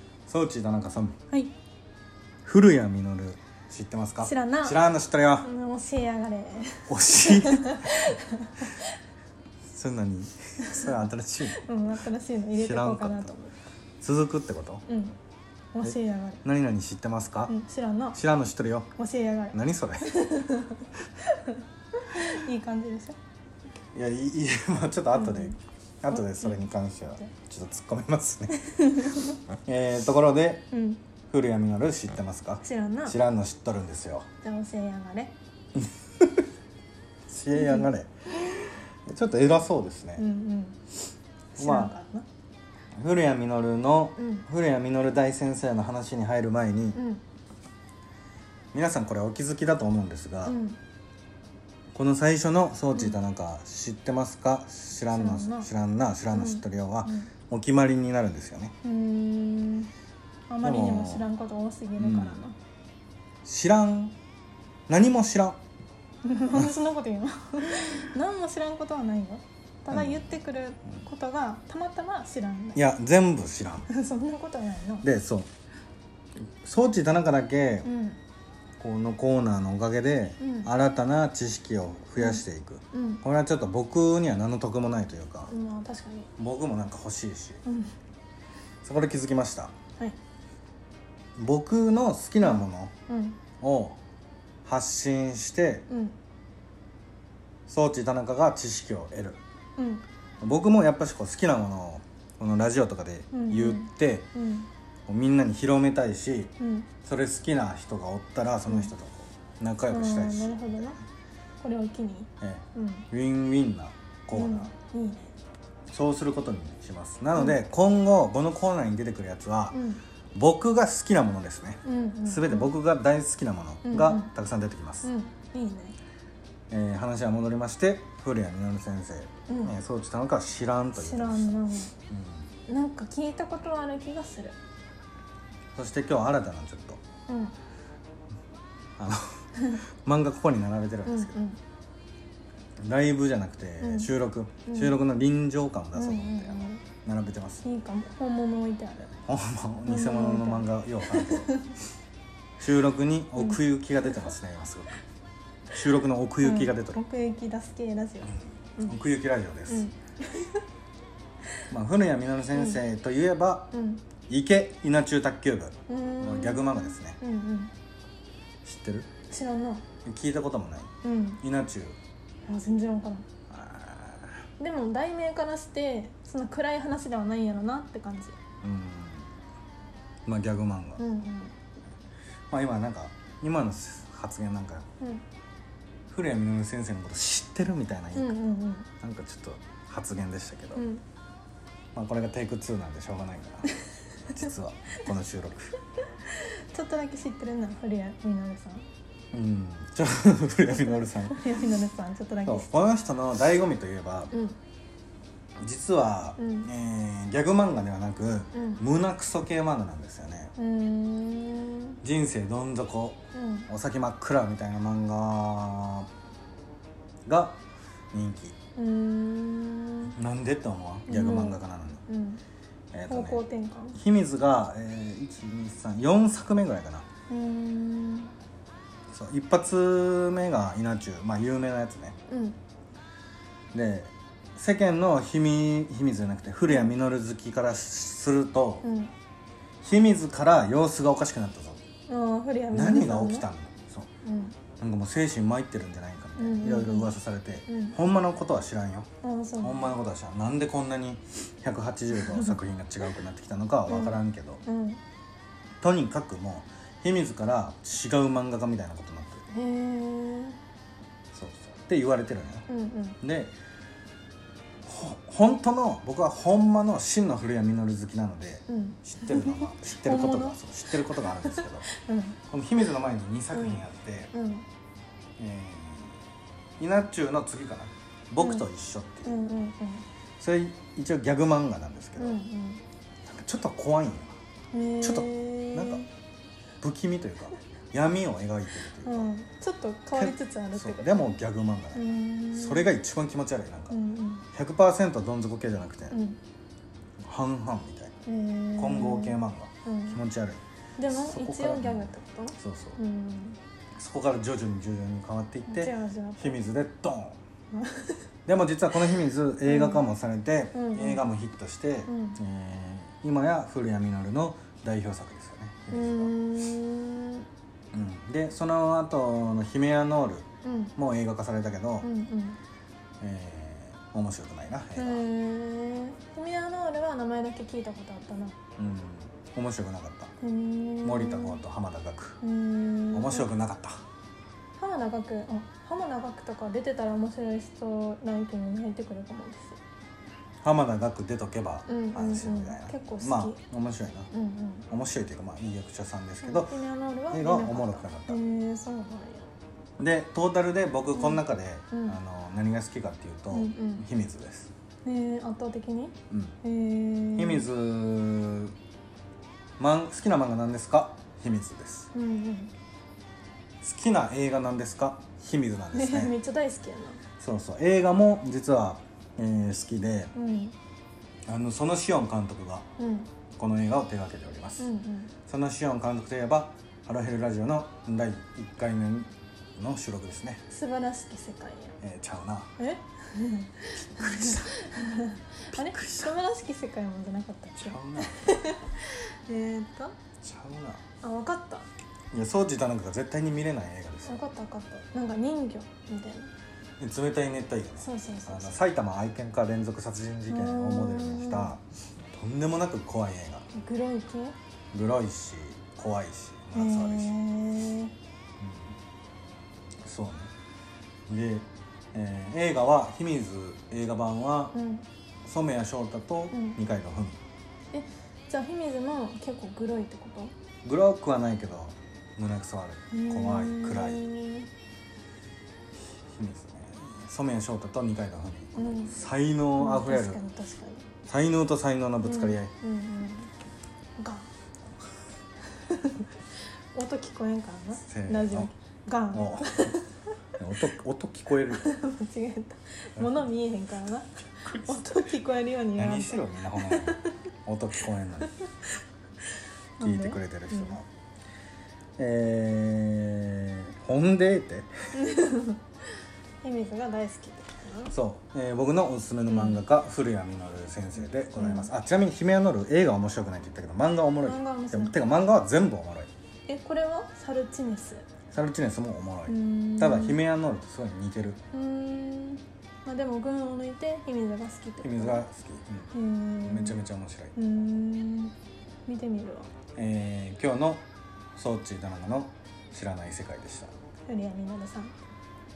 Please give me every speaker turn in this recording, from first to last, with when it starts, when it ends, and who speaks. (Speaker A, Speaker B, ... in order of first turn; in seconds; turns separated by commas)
Speaker A: 0.3-1.2, Speaker A: 2.5-5.5, Speaker B: 4.2-4.8, Speaker B: 5.4-8.9, Speaker A: 6.9-8.1, Speaker A: 9.7-11.7, Speaker B: 10.6-10.9, Speaker B: 11.5-13.6, Speaker A: 12.6-13.3, Speaker A: 14.0-14.8, Speaker B: 14.9-15.2, Speaker B: 15.7-16.4, Speaker A: 15.8-17.5, Speaker B: 17.5-18.2, Speaker A: 18.1-18.9, Speaker B: 19.0-23.2, Speaker A: 19.5-20.2, Speaker A: 23.9-28.6, Speaker B: 25.1-25.6, Speaker B: 26.1-26.6, Speaker B: 28.5-29.4, Speaker A: 29.5-30.7, Speaker B: 30.7-31.0, Speaker A: 31.3-34.3, Speaker B: 32.6-33.2, Speaker B: 34.4-35.4, Speaker A: 35.8-36.5, Speaker A: 37.3-40.3, Speaker B: 37.5-37.9, Speaker B: 40.2-40.8, Speaker B: 41.6-42.3, Speaker A: 41.6-41.9, Speaker A: 43.0-47.0, Speaker B: 44.2-44.5, Speaker B: 46.9-47.2, Speaker A: 48.7-50.6, Speaker B: 50.5-50.8, Speaker A: 51.9-58.8, Speaker B: 55.1-55.7, Speaker B: 56.3-57.3, Speaker B: 58.8-59.9, Speaker B: 60.5-62.5, Speaker A: 60.6-61.3, Speaker A: 62.0-62.4, Speaker A: 63.4-64.2, Speaker A: 64.9-65.6, Speaker B: 66.2-72.8, Speaker A: 66.5-66.8, Speaker A: 69.9-70.4, Speaker A: 72.8-73.9, Speaker B: 73.9-75.1, Speaker A: 75.0-75.5, Speaker A: 76.4-77.9, Speaker B: 77.8-78.2, Speaker A: 78.8-85.5, Speaker B: 80.4-80.7, Speaker B: 82.2-83.2, Speaker B: 85.5-86.3, Speaker A: 86.4-87.6, Speaker B: 87.7-87.9, Speaker A: 88.8-89.7, Speaker A: 91.4-92.9, Speaker B: 92.4-93.4, Speaker A: 93.6-94.0, Speaker A: 94.7-95.9, Speaker B: 95.9-96.2, Speaker A: 97.7-99.4, Speaker B: 99.8-100.0, Speaker A: 100.4-104.3, Speaker B: 103.3-104.7, Speaker A: 105.1-111.0, Speaker B: 106.6-106.9, Speaker B: 109.9-111.0, Speaker B: 111.6-113.1, Speaker A: 112.4-114.7, Speaker B: 114.3-115.3, Speaker A: 115.9-119.8, Speaker B: 117.3-117.6, Speaker B: 119.7-120.0, Speaker A: 120.3-125.1, Speaker B: 121.8-122.8, Speaker B: 123.8-124.3, Speaker B: 125.0-126.0, Speaker A: 126.7-131.6, Speaker B: 129.5-129.8, Speaker B: 131.0-131.9, Speaker A: 132.1-132.5, Speaker B: 132.7-134.6, Speaker A: 135.8-137.0, Speaker B: 137.3-137.5, Speaker A: 139.0-139.5, Speaker B: 139.6-139.8, Speaker A: 140.0-141.4, Speaker B: 141.1-141.6, Speaker A: 142.8-147.6, Speaker B: 143.8-144.1, Speaker B: 144.7-145.0, Speaker B: 145.9-146.8, Speaker B: 147.6-149.2, Speaker A: 149.3-151.6, Speaker B: 149.9-151.8, Speaker A: 152.6-155.0, Speaker B: 153.4-154.2, Speaker A: 155.7-157.0, Speaker B: 156.4-159.0, Speaker A: 158.4-159.9, Speaker B: 159.7-160.6, Speaker A: 161.7-163.7, Speaker B: 162.6-162.8, Speaker B: 163.7-164.0, Speaker A: 164.3-167.2, Speaker B: 165.9-167.7, Speaker A: 168.6-169.1, Speaker B: 169.3-169.8, Speaker A: 170.0-172.0, Speaker B: 171.0-171.4, Speaker B: 172.5-173.3, Speaker A: 173.5-174.4, Speaker B: 174.6-178.4, Speaker A: 178.6-179.3, Speaker A: 180.2-181.0, Speaker B: 181.0-181.6, Speaker A: 182.5-184.9, Speaker A: 186.1-188.4, Speaker B: 188.1-188.9, Speaker A: 189.0-190.8, Speaker B: 190.8-191.0, Speaker A: 191.9-193.7, Speaker A: 194.2-195.8, Speaker B: 196.3-198.9, Speaker A: 199.3-201.6, Speaker B: 200.7-202.8, Speaker A: 202.4-204.3, Speaker B: 204.3-204.6, Speaker A: 205.6-210.5, Speaker B: 206.4-206.7, Speaker B: 208.5-208.8, Speaker B: 210.6-212.0, Speaker A: 212.0-216.1, Speaker B: 213.3-213.7, Speaker A: 217.3-217.6, Speaker A: 218.1-218.6, Speaker B: 218.8-220.1, Speaker A: 220.1-222.0, Speaker B: 221.1-222.4, Speaker A: 222.9-223.4, Speaker B: 223.1-224.0, Speaker A: 223.9-227.1, Speaker B: 227.3-228.3, Speaker A: 229.1-232.2, Speaker B: 232.3-232.6, Speaker A: 233.7-238.9, Speaker B: 238.8-239.1, Speaker A: 239.8-241.8, Speaker B: 242.1-243.5, Speaker A: 242.7-244.1, Speaker B: 244.2-244.6, Speaker A: 244.8-249.1, Speaker B: 246.4-247.1, Speaker B: 247.7-248.0, Speaker B: 249.2-249.9, Speaker A: 249.6-254.6, Speaker B: 252.2-252.6, Speaker B: 253.9-255.0, Speaker A: 255.8-259.4, Speaker B: 259.5-260.6, Speaker A: 261.3-262.7, Speaker B: 262.7-263.2, Speaker A: 263.2-263.5, Speaker A: 264.8-271.9, Speaker B: 268.7-272.4, Speaker A: 272.5-274.3, Speaker B: 273.5-273.8, Speaker B: 274.3-274.6, Speaker A: 275.4-276.1, Speaker A: 276.8-279.4, Speaker B: 278.4-278.6, Speaker B: 279.2-280.1, Speaker A: 280.4-282.4, Speaker B: 282.2-282.8, Speaker A: 283.3-284.4, Speaker B: 284.7-286.1, Speaker A: 285.0-286.1, Speaker A: 286.8-289.3, Speaker B: 289.0-291.1, Speaker A: 290.1-294.0, Speaker B: 291.9-292.9, Speaker B: 293.9-294.4, Speaker A: 294.5-296.2, Speaker B: 296.1-296.4, Speaker A: 297.2-298.2, Speaker B: 298.3-300.2, Speaker A: 298.8-303.0, Speaker B: 301.0-303.6, Speaker A: 303.9-307.4, Speaker B: 305.7-306.6, Speaker B: 307.7-308.2, Speaker A: 308.5-316.3, Speaker B: 309.6-310.0, Speaker B: 310.7-311.2, Speaker B: 312.1-312.4, Speaker B: 315.9-317.5, Speaker A: 317.9-322.1, Speaker B: 320.6-320.9, Speaker B: 322.0-322.6, Speaker A: 323.2-325.2, Speaker B: 325.0-328.6, Speaker A: 328.8-330.3, Speaker B: 330.4-331.6, Speaker A: 331.0-332.4, Speaker B: 332.4-333.5, Speaker A: 333.1-334.0, Speaker B: 334.8-339.8, Speaker A: 340.6-344.3, Speaker B: 341.9-343.6, Speaker B: 344.3-344.9, Speaker A: 344.9-346.7, Speaker B: 346.4-349.5, Speaker A: 347.3-348.4, Speaker A: 350.0-354.7, Speaker B: 351.1-352.2, Speaker B: 353.5-354.0, Speaker B: 355.0-357.7, Speaker A: 356.3-356.6, Speaker A: 357.4-358.8, Speaker A: 359.8-362.1, Speaker B: 362.1-362.7, Speaker A: 363.8-366.4, Speaker B: 365.9-367.2, Speaker A: 367.4-370.3, Speaker B: 370.4-370.8, Speaker A: 371.5-372.9, Speaker B: 373.0-373.3, Speaker A: 373.6-374.9, Speaker B: 374.8-375.3, Speaker A: 375.5-380.6, Speaker B: 380.7-382.0, Speaker A: 382.0-382.7, Speaker B: 382.8-390.1, Speaker A: 384.0-384.8, Speaker A: 385.7-386.4, Speaker A: 387.8-388.6, Speaker A: 390.4-391.0, Speaker B: 391.2-391.9, Speaker A: 392.3-394.4, Speaker B: 394.3-396.5, Speaker A: 397.0-403.7, Speaker B: 398.0-398.8, Speaker B: 400.5-401.8, Speaker B: 403.7-404.6, Speaker A: 404.9-407.4, Speaker B: 406.7-408.1, Speaker A: 408.6-409.0, Speaker A: 410.0-410.5, Speaker A: 411.3-414.8, Speaker B: 414.7-415.1, Speaker A: 415.4-417.4, Speaker B: 416.5-416.8, Speaker B: 417.9-420.5, Speaker A: 420.8-424.3, Speaker B: 423.1-424.7, Speaker A: 425.9-430.4, Speaker B: 428.8-429.1, Speaker B: 429.8-431.1, Speaker A: 431.3-432.7, Speaker B: 432.2-433.5, Speaker B: 434.2-434.5, Speaker B: 435.7-436.3, Speaker B: 436.9-440.3, Speaker A: 438.0-438.7, Speaker A: 439.3-440.0, Speaker A: 440.6-441.9, Speaker B: 441.7-447.4, Speaker A: 443.2-443.4, Speaker A: 445.9-448.5, Speaker B: 450.0-451.0, Speaker A: 450.0-451.1, Speaker A: 452.2-454.9, Speaker B: 455.1-455.8, Speaker B: 456.6-458.1, Speaker A: 458.1-466.3, Speaker B: 459.5-459.8, Speaker B: 461.6-461.9, Speaker B: 464.4-465.2, Speaker B: 466.7-468.3, Speaker A: 468.5-471.6, Speaker B: 469.5-470.4, Speaker B: 471.7-475.4, Speaker A: 475.0-476.1, Speaker B: 476.1-477.0, Speaker A: 476.6-477.6, Speaker B: 477.6-478.5, Speaker B: 479.1-479.7, Speaker A: 479.9-483.9, Speaker B: 484.3-485.1